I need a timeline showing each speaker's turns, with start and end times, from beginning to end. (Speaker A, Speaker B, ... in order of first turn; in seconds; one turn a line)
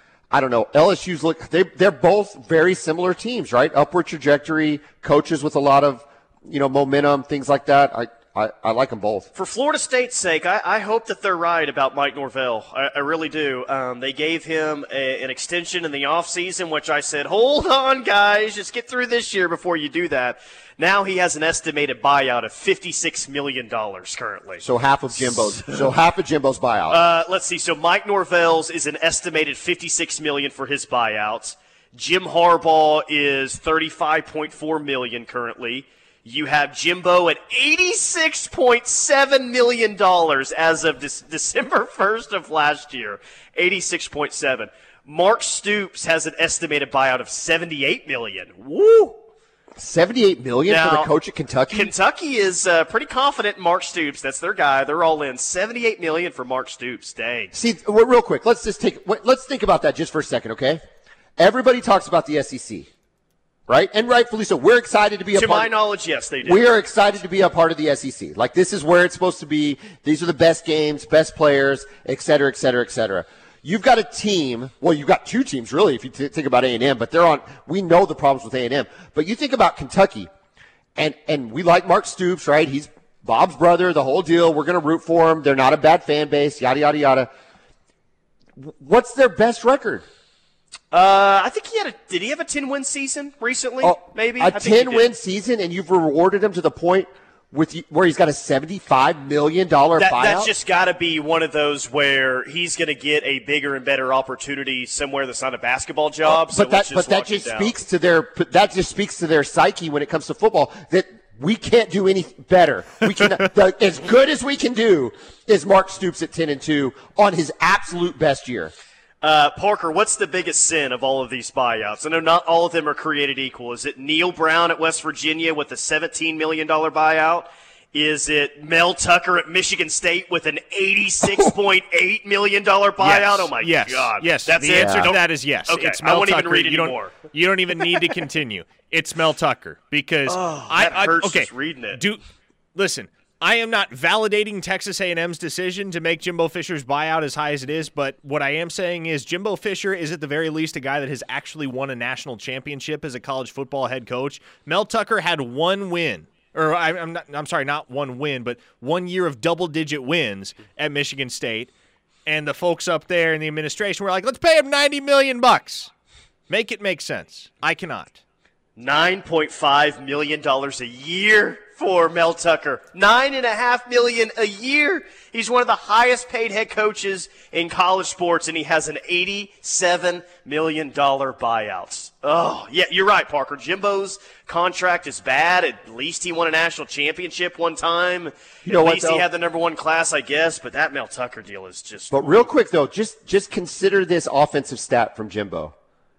Speaker A: 0.3-9.3
Speaker B: 9.3-25.8
Speaker A: 24.6-27.0
Speaker B: 26.9-49.2
Speaker A: 49.8-51.9
Speaker B: 50.7-51.1
Speaker B: 51.7-57.5
Speaker A: 57.5-60.8
Speaker A: 61.4-62.9
Speaker A: 63.7-65.7
Speaker B: 65.3-66.7
Speaker A: 66.4-80.3
Speaker A: 81.0-87.3
Speaker A: 88.6-90.0
Speaker B: 90.9-95.1
Speaker A: 93.8-100.5
Speaker B: 100.0-107.7
Speaker A: 106.2-118.7
Speaker B: 119.2-137.1
Speaker C: 133.0-142.2
Speaker A: 134.8-135.1
Speaker B: 140.3-142.0
Speaker C: 142.7-161.7
Speaker C: 162.2-165.9
Speaker C: 166.5-168.2
Speaker B: 168.8-192.4
Speaker A: 188.6-189.2
Speaker A: 192.1-195.7